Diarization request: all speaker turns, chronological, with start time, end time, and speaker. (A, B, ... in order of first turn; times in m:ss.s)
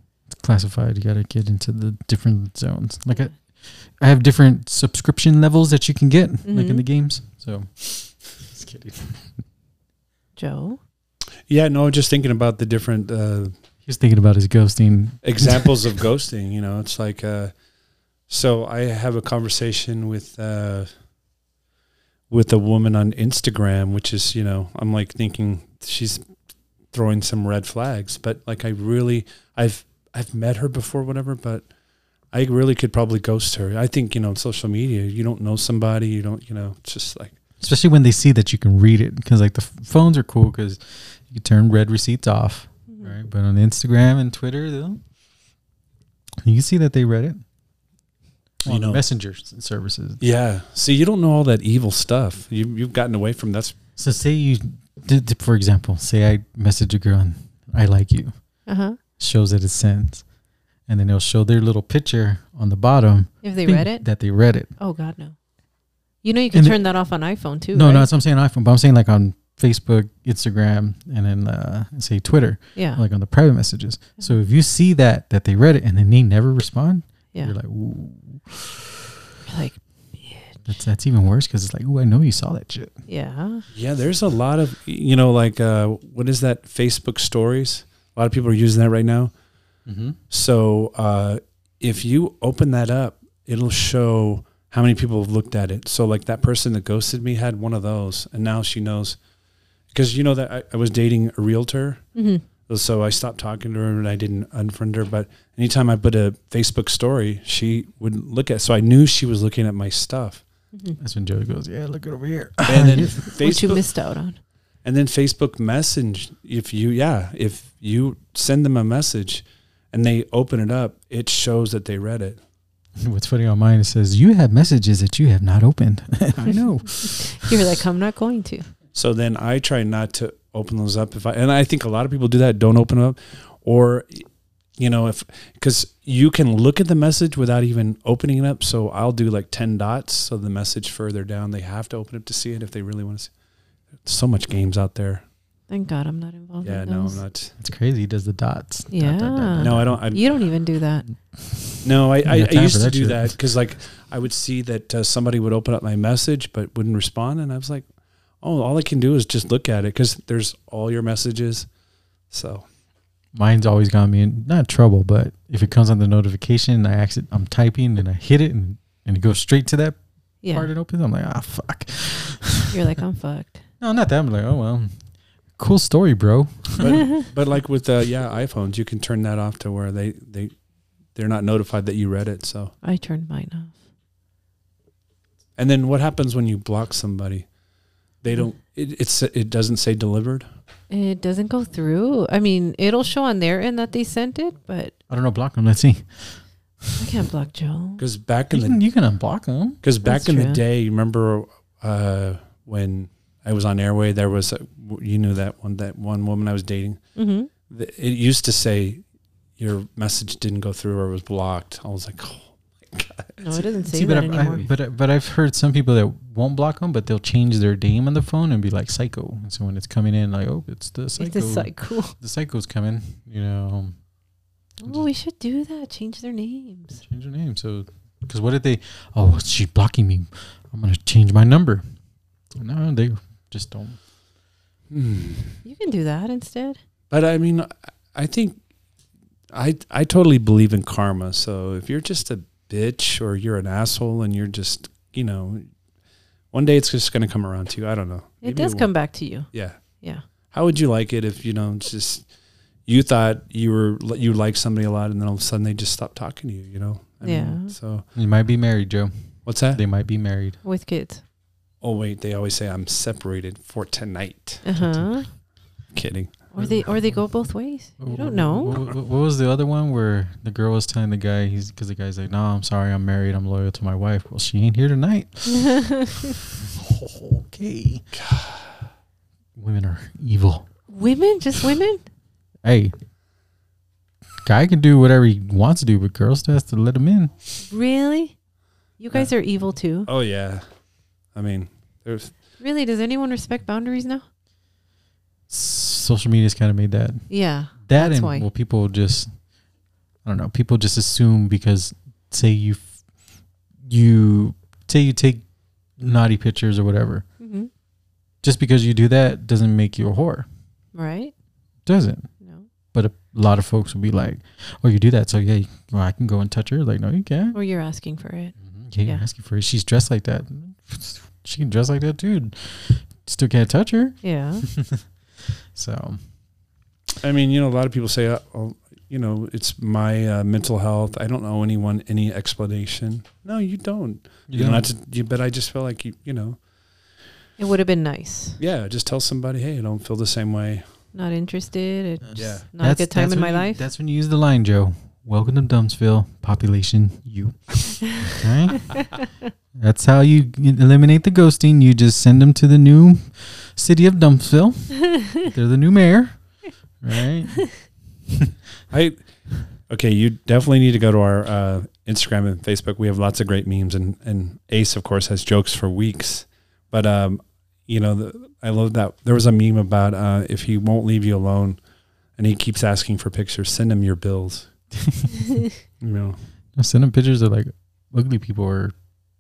0:00.3-0:09.3 A
0:06.5-0:06.8 B
0:10.4-0:10.8 B
0:11.5-0:13.5 C
0:13.9-0:16.0 A
0:15.2-0:17.5 C
0:18.3-0:20.9 C
0:22.3-0:26.2 C
0:26.9-0:31.7 C
0:32.3-0:37.4 C
0:37.6-0:45.0 A
0:42.9-0:43.1 B
0:46.4-0:47.4 A
0:48.6-0:50.2 A
0:48.7-0:49.0 C
0:50.2-0:53.8 C
0:54.0-0:58.3 A
0:58.7-0:59.0 B
0:59.2-1:00.2 A
1:00.9-1:04.7 A
1:03.4-1:04.0 B
1:04.8-1:05.4 B
1:06.2-1:08.1 B
1:06.5-1:07.0 A
1:07.7-1:19.1 A
1:12.8-1:13.0 B
1:19.5-1:20.6 B
1:20.7-1:23.0 A
1:23.1-1:23.6 B
1:23.7-1:29.3 C
1:29.9-1:30.2 A
1:30.3-1:39.2 C
1:39.9-1:42.1 C
1:42.2-1:42.4 B
1:42.7-1:50.4 C
1:50.7-1:51.0 B
1:51.0-1:53.3 A
1:52.6-1:53.8 C
1:53.3-1:54.4 B
1:54.8-2:02.4 C
2:03.0-2:07.6 A
2:07.0-2:08.7 B
2:09.0-2:14.3 C
2:14.8-2:23.3 C
2:24.0-2:25.2 C
2:25.7-2:27.2 B
2:26.6-2:27.5 C
2:27.6-2:30.0 A
2:28.9-2:31.1 B
2:29.6-2:30.4 C
2:31.3-2:33.4 A
2:31.8-2:37.8 C
2:38.4-2:41.7 C
2:42.3-2:42.7 C
2:43.3-2:52.7 A
2:50.4-2:50.7 B
2:52.7-2:53.6 B
2:53.8-2:55.0 A
2:55.6-2:57.0 A
2:56.8-3:00.5 C
3:01.2-3:02.7 C
3:02.8-3:03.8 B
3:05.6-3:07.5 C
3:08.2-3:10.5 C
3:10.9-3:14.9 B
3:15.1-3:16.4 A
3:17.0-3:18.0 B
3:18.0-3:18.8 C
3:18.5-3:19.8 A
3:19.8-3:27.0 C
3:20.0-3:20.6 B
3:27.2-3:27.5 B
3:27.7-3:29.0 C
3:29.6-3:33.6 C
3:33.4-3:34.7 B
3:33.9-3:44.0 A
3:41.2-3:42.2 B
3:44.8-3:47.0 B
3:47.0-3:51.8 A
3:52.6-3:54.0 A
3:54.9-3:55.6 C
3:55.6-3:56.8 B
3:57.1-3:58.6 C
3:59.5-4:05.7 C
4:06.5-4:08.9 C
4:08.4-4:09.5 B
4:09.5-4:09.8 C
4:10.5-4:12.2 C
4:12.9-4:18.1 C
4:17.2-4:17.7 B
4:18.2-4:19.1 A
4:19.5-4:19.8 C
4:19.7-4:20.6 A
4:20.6-4:21.2 B
4:21.8-4:24.6 C
4:24.6-4:25.3 B
4:24.8-4:25.0 A
4:25.9-4:26.5 C
4:26.5-4:28.8 B
4:26.6-4:27.2 A
4:28.0-4:38.0 A
4:35.5-4:36.4 B
4:38.1-4:38.7 C
4:39.6-4:40.7 A
4:40.9-4:42.0 B
4:42.6-4:42.9 A
4:44.4-4:47.3 A
4:47.7-4:48.4 B
4:49.0-4:50.1 B
4:50.1-4:50.6 C
4:51.4-4:52.3 C
4:52.6-4:54.2 B
4:55.5-4:57.3 A
4:57.3-4:58.5 B
4:57.8-4:59.3 A
5:00.2-5:02.9 A
5:03.8-5:05.4 A
5:06.0-5:07.2 A
5:07.4-5:07.7 B
5:08.4-5:10.5 A
5:10.9-5:11.3 B
5:11.9-5:12.3 A
5:12.4-5:12.7 B
5:12.9-5:17.6 A
5:17.5-5:19.2 B
5:18.6-5:26.2 A
5:24.2-5:24.7 B
5:27.2-5:36.6 C
5:34.5-5:34.9 A
5:37.6-5:38.6 B
5:38.6-5:40.8 C
5:41.1-5:43.8 B
5:42.2-5:49.0 A
5:42.4-5:42.7 C
5:48.9-5:49.2 B
5:49.8-5:56.4 A
5:55.1-5:55.5 B
5:57.0-5:58.5 A
5:58.9-5:59.2 C
5:59.9-6:11.8 C
6:12.4-6:14.7 C
6:15.0-6:15.3 A
6:16.0-6:16.4 C
6:16.8-6:19.0 A